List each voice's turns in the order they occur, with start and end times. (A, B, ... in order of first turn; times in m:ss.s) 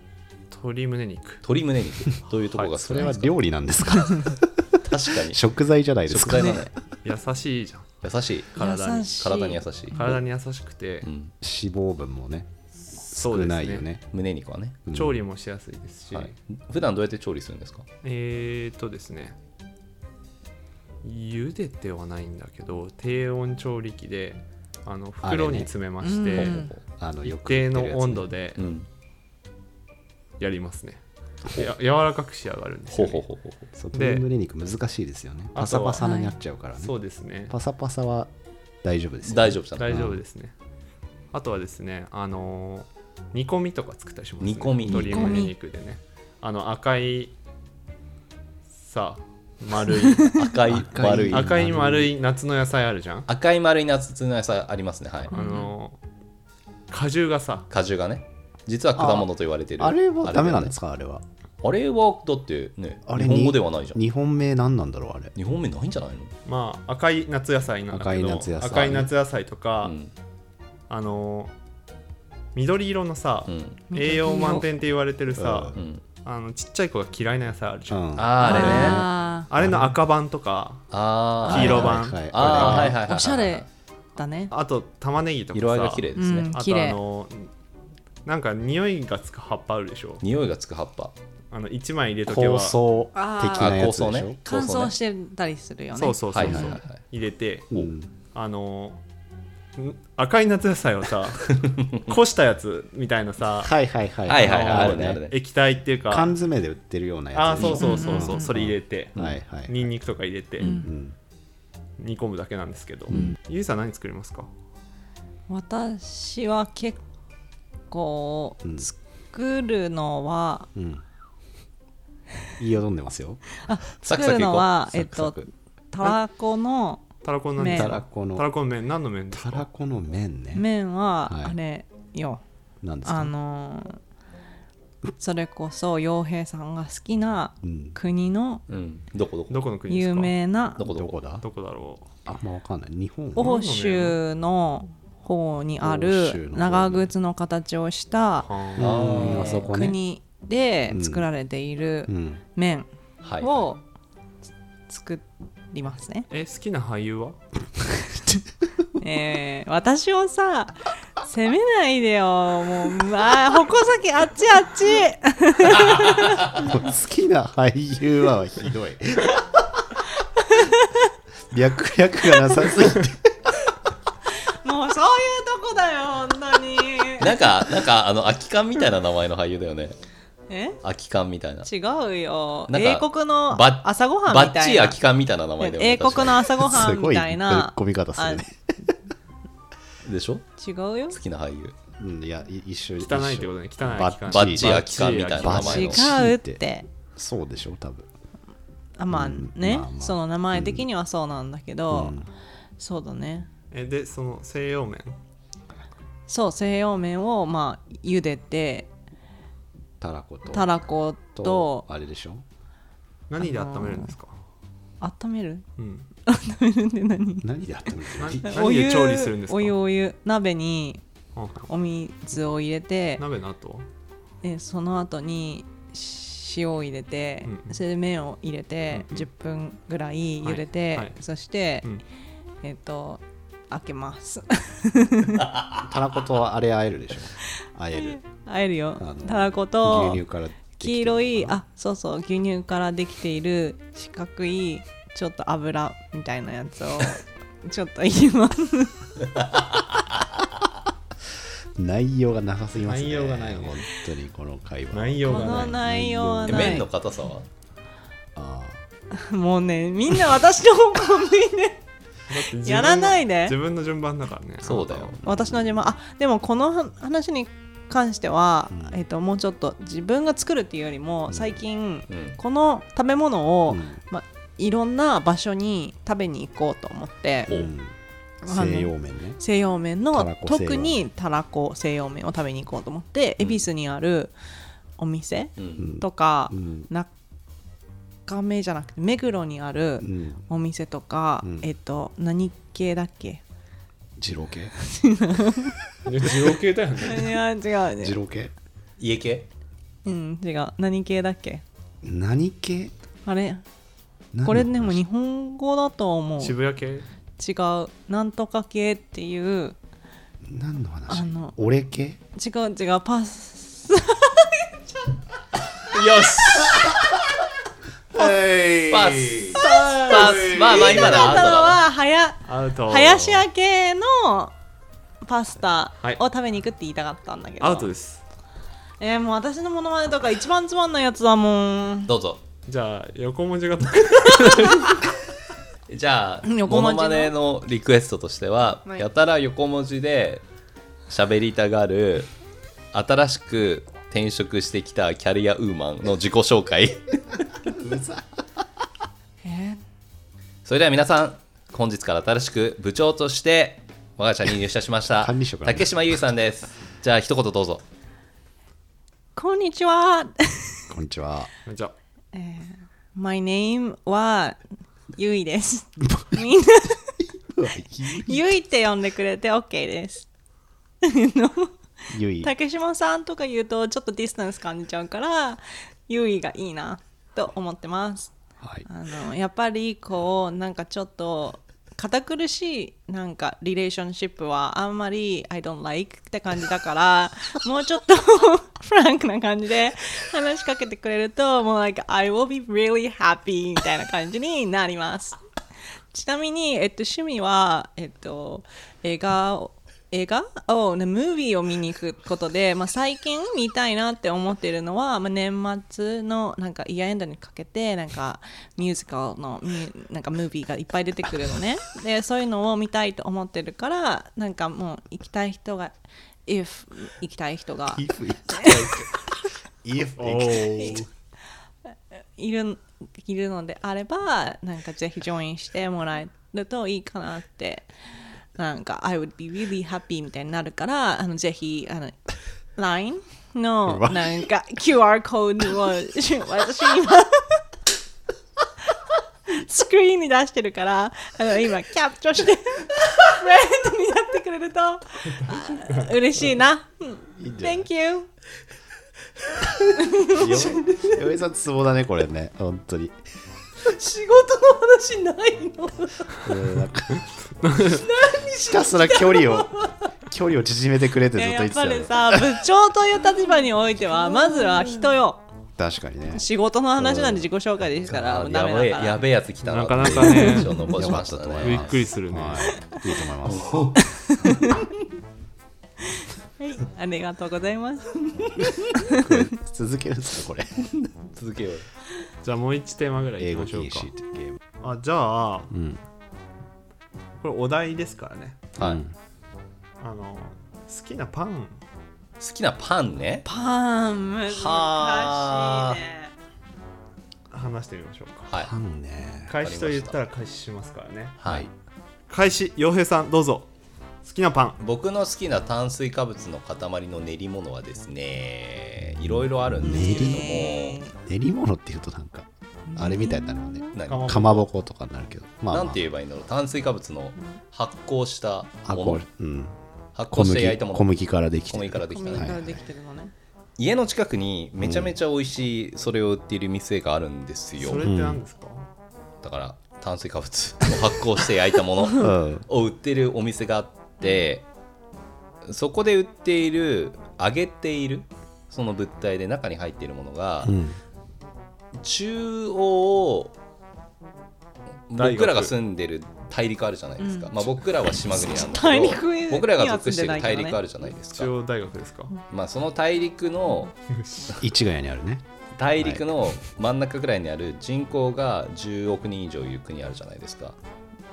0:00.5-0:01.4 A
0:01.4-0:03.4 B
0:02.8-0:06.7 C
0:04.8-0:05.4 B
0:06.1-0:06.7 B
0:07.0-0:07.9 A
0:08.0-0:08.6 B
0:08.6-0:09.1 A
0:08.6-0:09.6 D
0:09.2-0:10.2 B
0:09.9-0:11.1 A
0:11.0-0:11.3 B
0:11.4-0:12.5 C
0:12.9-0:13.8 A
0:13.1-0:14.0 C
0:14.1-0:14.8 B
0:14.9-0:15.2 C
0:14.9-0:16.3 A
0:16.1-0:17.8 B
0:18.0-0:19.4 A
0:21.0-0:26.6 A
0:25.2-0:25.7 C
0:26.0-0:26.7 D
0:26.3-0:26.8 B
0:26.9-0:28.3 C
0:27.2-0:28.7 A
0:28.6-0:28.9 B
0:30.4-0:33.2 A
0:32.9-0:33.6 B
0:33.8-0:36.9 C
0:33.9-0:34.2 A
0:35.5-0:36.1 A
0:36.0-0:36.4 D
0:36.8-0:37.5 A
0:37.5-0:38.3 C
0:38.8-0:40.2 C
0:39.2-0:40.0 B
0:39.8-0:40.5 A
0:41.3-0:47.3 A
0:44.4-0:45.4 B
0:45.0-0:45.5 D
0:48.8-0:50.4 A
0:50.1-0:50.4 D
0:50.3-0:51.6 B
0:50.6-0:52.1 C
0:51.3-0:53.3 A
0:53.3-0:55.4 B
0:55.3-0:55.7 D
0:55.3-0:56.0 A
0:56.9-0:57.7 A
0:57.7-1:00.7 B
0:59.0-0:59.3 C
0:59.8-1:01.2 C
1:01.6-1:04.0 B
1:03.1-1:05.3 C
1:05.4-1:06.3 B
1:06.4-1:09.9 A
1:07.9-1:09.1 C
1:09.8-1:10.1 B
1:10.9-1:11.5 A
1:12.5-1:20.8 A
1:13.5-1:13.8 B
1:13.9-1:14.7 D
1:15.3-1:15.8 C
1:15.7-1:16.0 B
1:17.9-1:19.9 C
1:18.1-1:19.0 B
1:18.4-1:19.5 D
1:20.9-1:23.6 B
1:21.4-1:22.9 A
1:21.4-1:23.0 C
1:22.8-1:24.5 D
1:24.5-1:27.5 A
1:25.5-1:26.5 B
1:26.2-1:27.0 D
1:28.2-1:30.2 A
1:30.2-1:31.1 B
1:31.5-1:32.8 A
1:32.3-1:34.4 C
1:33.1-1:33.8 D
1:33.5-1:34.9 B
1:34.4-1:36.2 D
1:35.9-1:37.7 A
1:36.3-1:37.0 B
1:36.4-1:36.8 C
1:37.7-1:38.1 C
1:38.3-1:39.0 A
1:39.8-1:43.7 A
1:43.6-1:45.2 C
1:44.3-1:45.4 B
1:44.3-1:46.3 A
1:46.1-1:49.8 C
1:47.3-1:50.8 A
1:47.6-1:48.5 D
1:50.6-1:50.9 D
1:50.6-1:51.2 C
1:52.0-1:54.5 A
1:55.5-1:57.0 D
1:57.9-2:00.7 D
1:58.6-1:58.9 C
2:00.7-2:01.0 C
2:02.6-2:03.4 C
2:03.6-2:07.0 D
2:04.0-2:05.3 B
2:07.2-2:09.6 A
2:07.6-2:07.9 D
2:07.7-2:08.5 C
2:09.3-2:10.6 C
2:10.5-2:12.4 D
2:11.2-2:11.6 C
2:12.8-2:13.3 C
2:13.0-2:14.0 D
2:15.2-2:18.6 D
2:17.6-2:18.0 C
2:18.7-2:19.6 B
2:19.5-2:20.4 A
2:19.9-2:20.8 D
2:20.8-2:21.2 B
2:20.8-2:21.4 C
2:21.4-2:22.1 A
2:22.2-2:23.5 C
2:23.3-2:32.9 D
2:23.4-2:24.2 A
2:25.8-2:27.1 C
2:28.4-2:29.3 A
2:28.8-2:30.0 C
2:28.8-2:29.7 B
2:30.9-2:31.2 C
2:32.1-2:32.4 C
2:33.2-2:33.6 B
2:33.4-2:33.8 D
2:34.9-2:36.3 D
2:36.3-2:37.4 A
2:39.0-2:46.5 D
2:45.8-2:46.6 B
2:46.5-2:49.8 C
2:50.4-2:51.0 D
2:51.5-2:53.5 C
2:54.5-2:57.5 D
2:57.2-3:00.0 B
3:00.5-3:00.8 D
3:00.8-3:01.7 B
3:01.6-3:05.0 D
3:02.7-3:06.5 B
3:05.6-3:08.4 D
3:06.6-3:08.9 C
3:10.0-3:10.5 B
3:10.6-3:11.2 D
3:11.1-3:11.8 B
3:12.0-3:16.6 C
3:13.0-3:15.9 A
3:14.3-3:16.1 B
3:15.6-3:16.9 D
3:17.2-3:18.1 C
3:19.0-3:22.2 D
3:19.1-3:20.9 C
3:21.9-3:22.3 C
3:22.8-3:23.5 D
3:23.7-3:25.2 A
3:26.3-3:28.9 D
3:30.0-3:30.8 C
3:30.5-3:31.9 D
3:31.3-3:32.4 C
3:33.3-3:34.4 A
3:33.4-3:34.1 D
3:35.0-3:35.6 D
3:35.8-3:36.0 A
3:36.2-3:37.5 D
3:37.4-3:38.6 C
3:38.2-3:39.8 A
3:38.4-3:41.0 D
3:41.3-3:41.7 A
3:41.7-3:43.2 D
3:43.2-3:43.8 A
3:44.4-3:51.9 D
3:47.4-3:47.8 A
3:48.9-3:49.3 A
3:50.4-3:51.2 A
3:52.6-3:55.5 D
3:55.8-3:58.2 C
3:57.9-4:00.2 D
3:59.0-4:01.6 C
4:00.8-4:09.1 D
4:11.8-4:16.8 C
4:12.8-4:13.8 A
4:14.9-4:15.8 A
4:15.2-4:16.9 D
4:16.5-4:17.5 B
4:18.3-4:18.8 C
4:19.1-4:21.8 D
4:22.3-4:25.2 A
4:22.6-4:23.6 D
4:24.6-4:25.2 B
4:25.2-4:25.8 C
4:25.2-4:37.5 D
4:28.7-4:29.0 C
4:31.3-4:31.6 C
4:32.1-4:32.4 B
4:33.7-4:34.0 C
4:37.5-4:39.4 C
4:38.4-4:44.3 D
4:40.1-4:41.0 C
4:43.4-4:43.6 B
4:45.0-4:47.1 D
4:45.6-4:45.9 B
4:45.8-4:46.9 C
4:48.3-4:53.4 D
4:50.0-4:50.4 C
4:51.4-4:51.7 C
4:54.2-4:54.7 C
4:54.8-4:55.7 D
4:56.0-4:57.4 A
4:57.0-4:58.2 D
4:58.0-4:58.5 C
4:59.0-4:59.5 B
5:00.0-5:01.6 D
5:02.0-5:02.9 C
5:03.2-5:03.6 D
5:04.3-5:05.0 C
5:04.4-5:06.6 D
5:06.4-5:07.0 A
5:07.4-5:09.8 D
5:10.4-5:12.2 C
5:11.1-5:11.5 D
5:12.3-5:15.1 D
5:15.9-5:17.0 B
5:18.1-5:21.1 C
5:18.1-5:21.8 B
5:19.5-5:24.5 D
5:22.4-5:23.5 A
5:25.2-5:27.9 D
5:27.6-5:28.2 A
5:29.0-5:32.1 D
5:32.1-5:32.4 B
5:32.6-5:34.9 A
5:35.9-5:40.4 B
5:36.4-5:37.3 D
5:41.1-5:42.3 B
5:42.9-5:47.2 B
5:47.6-5:48.3 C
5:49.4-5:49.8 D
5:50.6-5:57.8 B
5:55.2-5:55.9 C
5:59.4-6:00.9 D
6:00.9-6:01.5 C
6:01.6-6:01.9 A
6:02.3-6:04.6 D
6:05.1-6:07.2 D
6:07.4-6:08.5 C
6:08.1-6:10.3 D
6:11.0-6:11.7 D
6:12.1-6:12.5 C
6:12.4-6:18.3 D
6:18.6-6:18.8 C
6:18.8-6:35.4 D
6:36.1-6:55.9 D
6:56.5-6:59.0 D
6:57.9-6:59.1 C
6:59.8-7:01.1 C
7:00.2-7:01.0 A
7:02.1-7:07.8 D
7:08.6-7:12.2 D
7:12.8-7:17.6 D
7:13.9-7:14.4 C
7:19.5-7:28.3 D
7:27.3-7:27.9 C
7:29.4-7:29.9 B
7:30.0-7:30.6 D
7:30.3-7:33.1 C
7:30.6-7:31.1 B
7:33.8-7:36.5 B
7:36.4-7:37.2 C
7:37.6-7:38.0 A
7:37.8-7:39.8 B
7:38.6-7:42.4 C
7:41.3-7:45.4 D
7:45.8-7:46.4 C
7:46.3-7:49.2 D
7:47.0-7:47.5 C
7:48.1-7:52.0 B
7:49.6-7:50.8 A
7:50.0-7:53.9 C
7:50.4-7:50.9 D
7:51.6-7:52.8 A
7:53.4-7:54.0 B
7:54.0-7:54.9 D
7:56.2-7:59.3 D
7:59.1-8:00.9 C
8:01.0-8:01.8 B
8:02.4-8:04.1 A
8:03.4-8:04.6 C
8:04.8-8:05.7 A
8:05.7-8:06.0 C
8:07.4-8:08.6 A
8:08.8-8:09.1 C
8:10.0-8:11.8 A
8:12.4-8:13.5 B
8:13.4-8:16.3 D
8:14.5-8:16.0 B
8:17.5-8:18.5 A
8:18.5-8:18.7 B
8:18.6-8:19.5 C
8:19.5-8:21.4 A
8:19.6-8:20.2 B
8:21.4-8:21.7 B
8:21.4-8:21.7 C
8:22.3-8:23.7 A
8:24.2-8:24.8 A
8:24.8-8:31.0 B
8:29.2-8:30.7 C
8:29.8-8:31.1 D
8:31.2-8:36.0 C
8:32.9-8:33.9 D
8:33.9-8:34.6 B
8:34.0-8:34.7 A
8:35.7-8:39.2 B
8:38.8-8:39.8 C
8:40.2-8:41.1 B
8:40.3-8:42.8 C
8:41.7-8:42.6 B
8:42.1-8:43.3 D
8:43.8-8:48.1 B
8:44.8-8:45.1 C
8:47.8-8:48.9 A
8:48.0-8:48.4 C
8:49.4-8:54.6 B
8:52.2-8:52.6 C
8:55.6-9:00.8 B
9:00.6-9:01.0 C
9:02.0-9:03.5 B
9:05.1-9:11.5 B
9:05.2-9:05.7 A
9:07.2-9:07.5 D
9:08.3-9:10.8 D
9:11.1-9:12.3 A
9:12.5-9:13.9 B
9:14.1-9:14.6 A
9:14.5-9:15.4 C
9:15.8-9:20.8 B
9:16.0-9:16.5 C